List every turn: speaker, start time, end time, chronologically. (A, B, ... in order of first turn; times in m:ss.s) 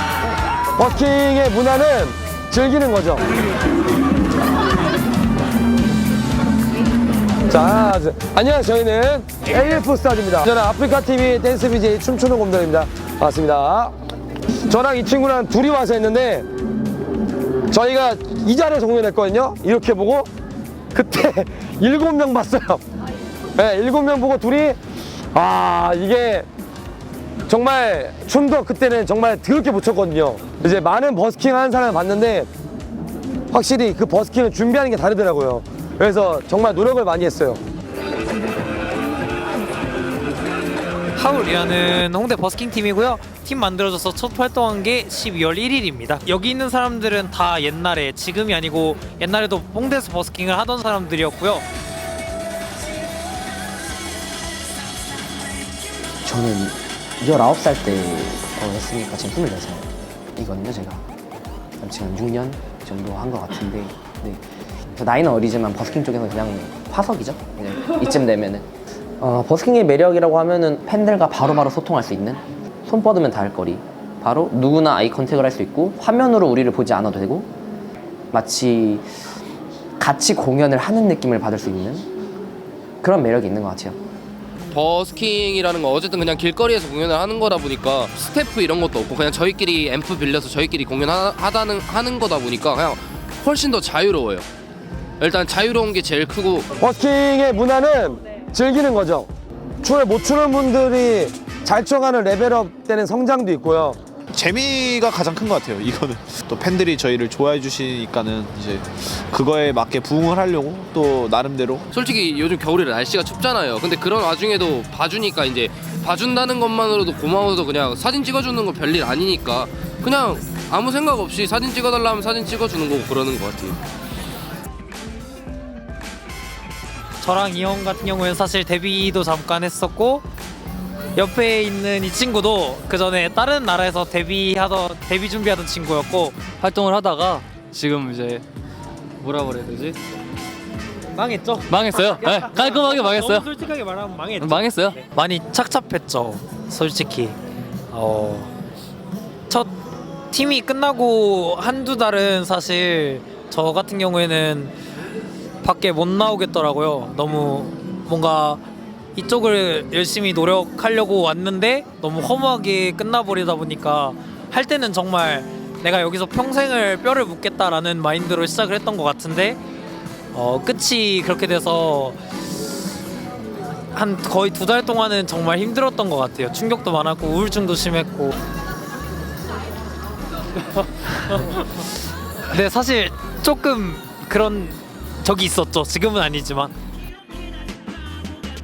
0:00.8-0:03.2 A
0:07.5-0:13.9 A
0:14.7-0:16.5 A
0:17.7-0:20.3 A
0:20.9-0:22.8 A
0:23.6-0:24.8 A
0:25.3-0:26.5 A
0:27.5-0:32.5 A
0:33.5-0:37.6 A
0:41.2-0:51.6 B
0:56.2-1:01.1 C
1:01.8-1:04.4 C
1:04.9-1:08.7 C
1:09.2-1:17.5 C
1:18.3-1:19.1 C
1:20.0-1:22.1 C
1:23.0-1:24.0 C
1:24.7-1:34.4 D
1:35.2-1:36.6 D
1:36.8-1:39.3 A
1:39.8-1:44.0 A
1:44.3-1:51.9 E
1:51.9-2:03.8 D
2:07.2-2:10.2 B
2:11.1-2:16.4 B
2:16.6-2:18.4 F
2:19.2-2:20.0 F
2:21.1-2:27.4 B
2:21.7-2:23.4 F
2:24.4-2:25.0 F
2:27.9-2:28.5 B
2:29.5-2:29.8 B
2:30.3-2:34.7 B
2:35.6-2:38.6 B
2:39.1-2:49.6 B
2:50.3-2:52.2 B
2:53.9-2:58.3 B
3:02.5-3:06.7 B